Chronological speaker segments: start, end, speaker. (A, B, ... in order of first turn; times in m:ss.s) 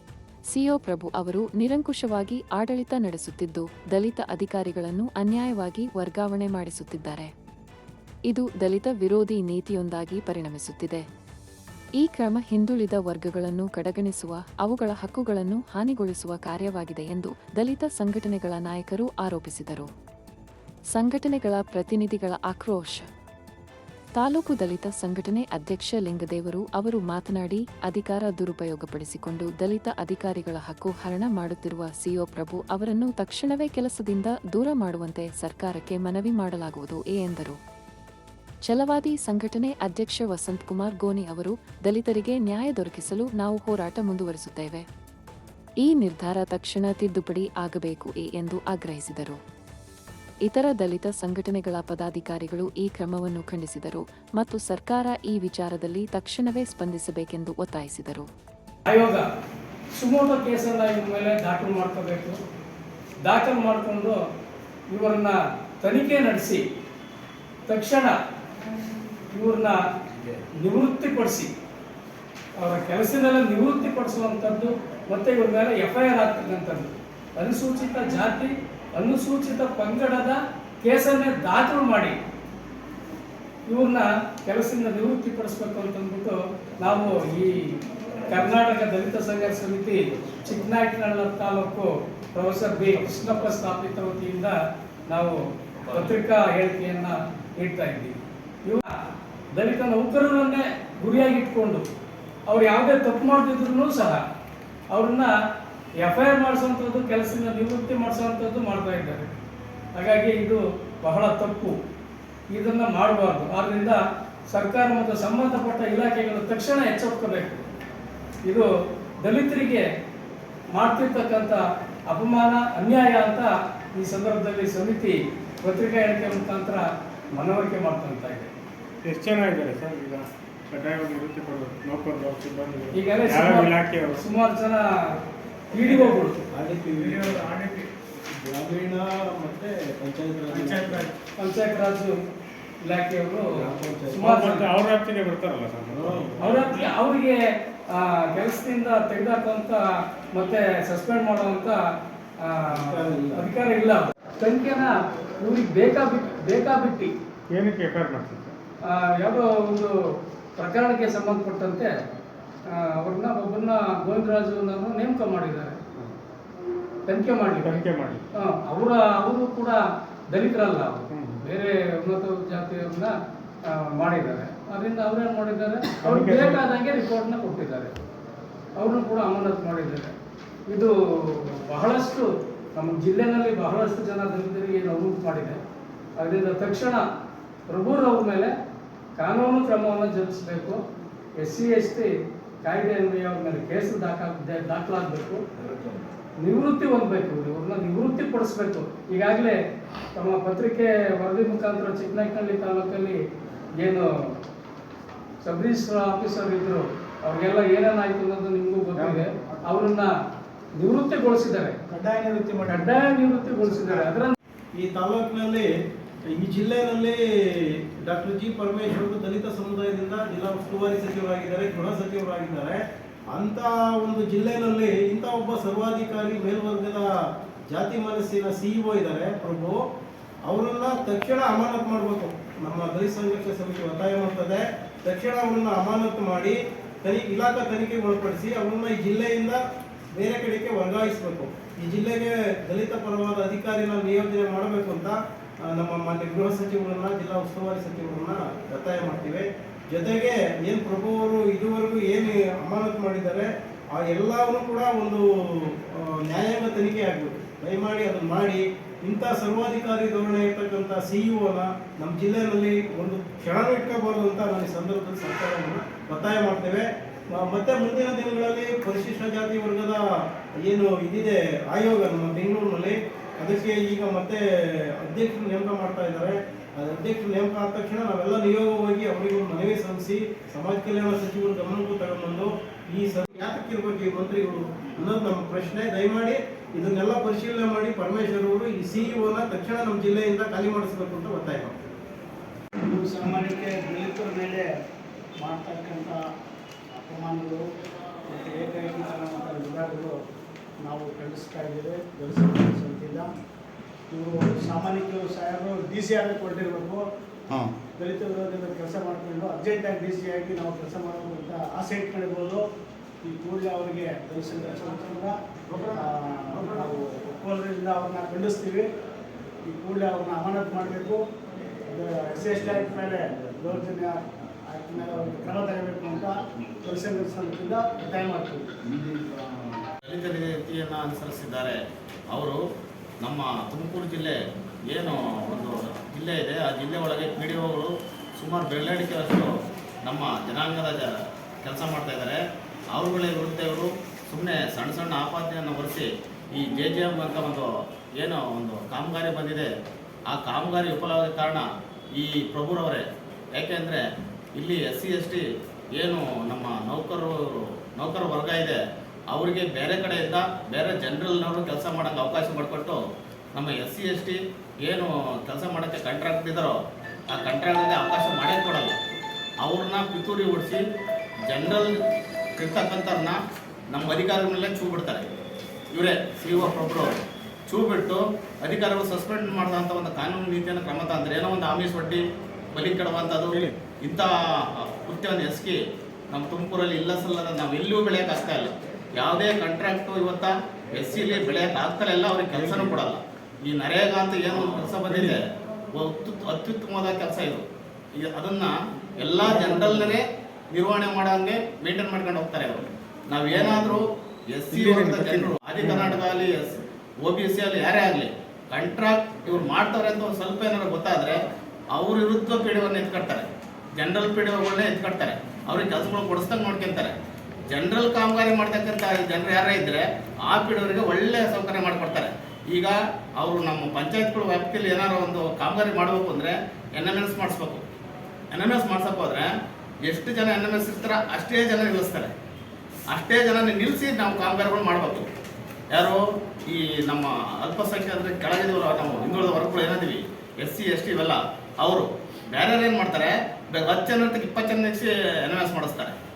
0:00.5-0:07.3 A
0:08.3-0:11.0 A
0:12.0-0:19.9 A
0:21.0-0:23.1 A
0:24.2-0:37.6 A
0:38.7-0:44.9 A
0:45.8-0:49.4 A
0:50.5-0:58.3 A
0:58.9-0:59.3 B
1:00.0-1:02.4 B
1:03.3-1:04.2 B
1:04.9-1:06.6 B
1:07.7-1:08.2 B
1:09.3-1:09.8 B
1:10.6-1:11.5 B
1:12.6-1:22.2 B
1:23.7-1:27.6 B
1:28.3-1:34.6 B
1:35.1-1:38.9 B
1:39.6-1:41.9 B
1:42.5-1:44.2 B
1:44.9-1:45.3 B
1:46.0-1:49.3 B
1:50.0-1:51.8 B
1:52.5-1:54.0 B
1:54.5-1:57.6 B
1:59.2-1:59.8 B
2:00.7-2:08.5 B
2:09.0-2:14.2 C
2:12.9-2:14.9 B
2:15.7-2:16.4 B
2:15.9-2:16.2 C
2:16.5-2:17.5 D
2:17.0-2:17.9 C
2:18.3-2:21.1 D
2:20.6-2:21.0 C
2:21.4-2:22.2 B
2:22.8-2:23.6 B
2:23.6-2:24.4 D
2:24.1-2:26.9 C
2:24.2-2:24.7 B
2:25.9-2:26.5 D
2:26.4-2:27.4 B
2:28.0-2:31.8 B
2:32.4-2:37.1 B
2:32.7-2:33.5 D
2:37.5-2:38.5 C
2:38.9-2:39.9 B
2:40.6-2:41.9 B
2:42.8-2:45.8 B
2:47.1-2:47.7 B
2:47.6-2:48.2 C
2:48.4-2:49.8 B
2:50.3-2:53.1 B
2:51.1-2:51.4 C
2:53.7-2:57.9 B
2:55.9-2:56.6 C
2:58.8-3:00.1 B
3:00.7-3:05.6 B
3:06.2-3:07.0 B
3:07.7-3:08.5 B
3:09.2-3:10.8 B
3:11.4-3:12.1 B
3:12.6-3:15.4 B
3:16.4-3:19.6 B
3:20.2-3:23.2 B
3:23.8-3:24.3 B
3:25.4-3:30.1 B
3:30.8-3:31.8 B
3:31.9-3:34.1 E
3:32.7-3:34.4 B
3:34.8-3:35.7 D
3:36.3-3:42.8 D
3:43.3-3:47.1 D
3:47.7-3:49.8 D
3:50.5-3:59.6 D
4:00.1-4:30.0 D
4:30.6-4:51.8 D
4:52.8-4:54.7 E
4:55.4-4:56.2 E
4:56.9-4:57.6 E
4:58.3-5:00.2 E
5:00.8-5:03.3 E
5:04.1-5:07.0 E
5:08.0-5:12.6 E
5:13.2-5:15.4 E
5:15.9-5:18.9 E
5:19.6-5:21.2 E
5:21.9-5:29.3 E
5:30.0-5:31.8 F
5:32.3-5:32.6 F
5:33.2-5:34.4 F
5:34.9-5:39.5 F
5:40.0-5:42.4 F
5:42.9-5:49.7 F
5:50.3-5:53.0 F
5:53.6-5:54.0 F
5:54.6-5:55.4 F
5:56.0-5:58.8 F
5:59.3-6:03.0 F
6:03.6-6:06.8 F
6:07.3-6:09.0 F
6:09.6-6:10.8 F
6:11.5-6:12.0 F
6:12.6-6:13.4 F
6:13.9-6:15.3 F
6:15.9-6:17.2 F
6:17.7-6:22.2 F
6:22.7-6:25.8 F
6:26.3-6:51.4 F
6:39.5-6:40.0 D
6:44.7-6:46.2 C
6:51.9-6:57.2 F
6:57.7-7:07.8 F
7:08.5-7:09.5 F
7:10.1-7:12.3 F
7:13.1-7:15.3 F
7:15.9-7:26.2 F